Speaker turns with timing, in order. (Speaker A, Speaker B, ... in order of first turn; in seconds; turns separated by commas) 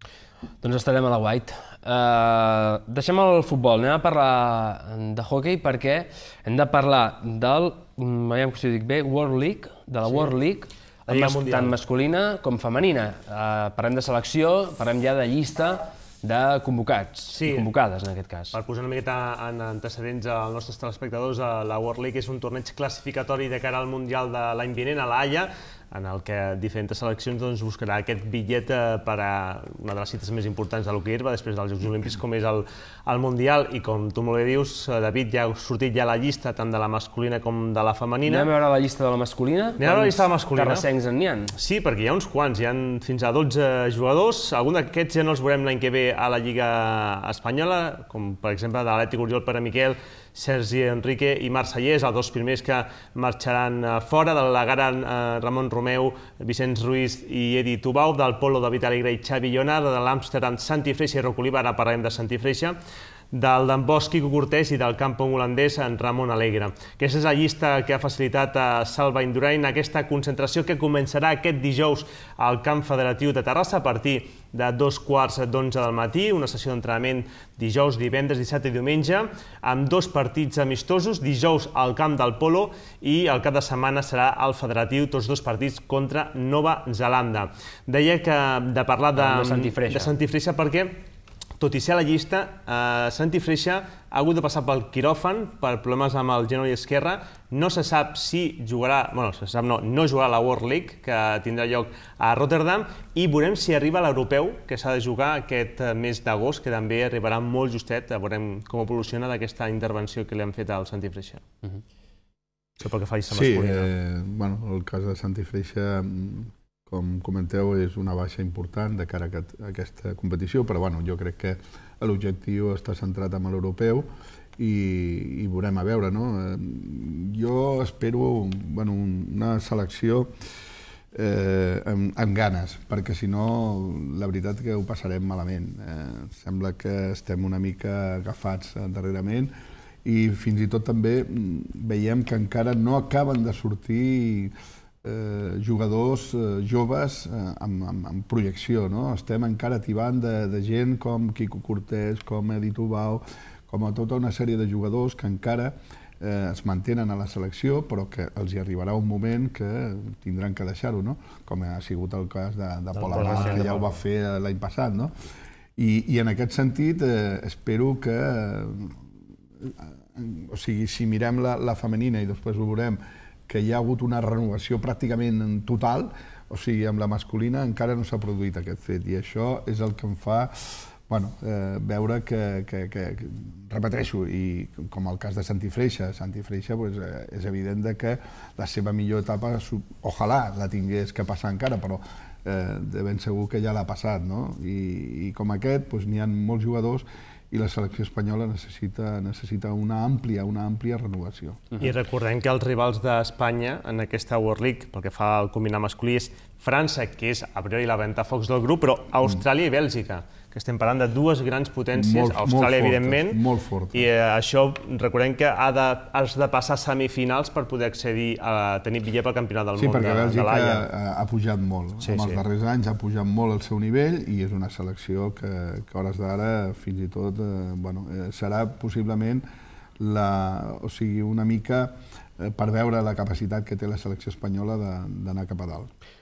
Speaker A: 0.6-18.6, Speaker B: 11.1-11.8, Speaker B: 17.3-17.7, Speaker B: 18.5-38.5, Speaker A: 38.3-41.5, Speaker B: 39.8-40.9, Speaker B: 41.6-62.8, Speaker B: 63.3-91.0, Speaker A: 89.2-90.1, Speaker B: 91.6-111.5, Speaker B: 112.8-113.9, Speaker C: 113.3-130.4, Speaker C: 131.1-144.5, Speaker C: 145.0-165.1, Speaker B: 163.0-163.9, Speaker A: 163.1-163.7, Speaker C: 165.8-201.8, Speaker B: 201.8-213.4, Speaker C: 211.9-214.1, Speaker B: 213.9-220.9, Speaker C: 219.8-229.4, Speaker B: 222.0-222.4, Speaker C: 230.0-235.9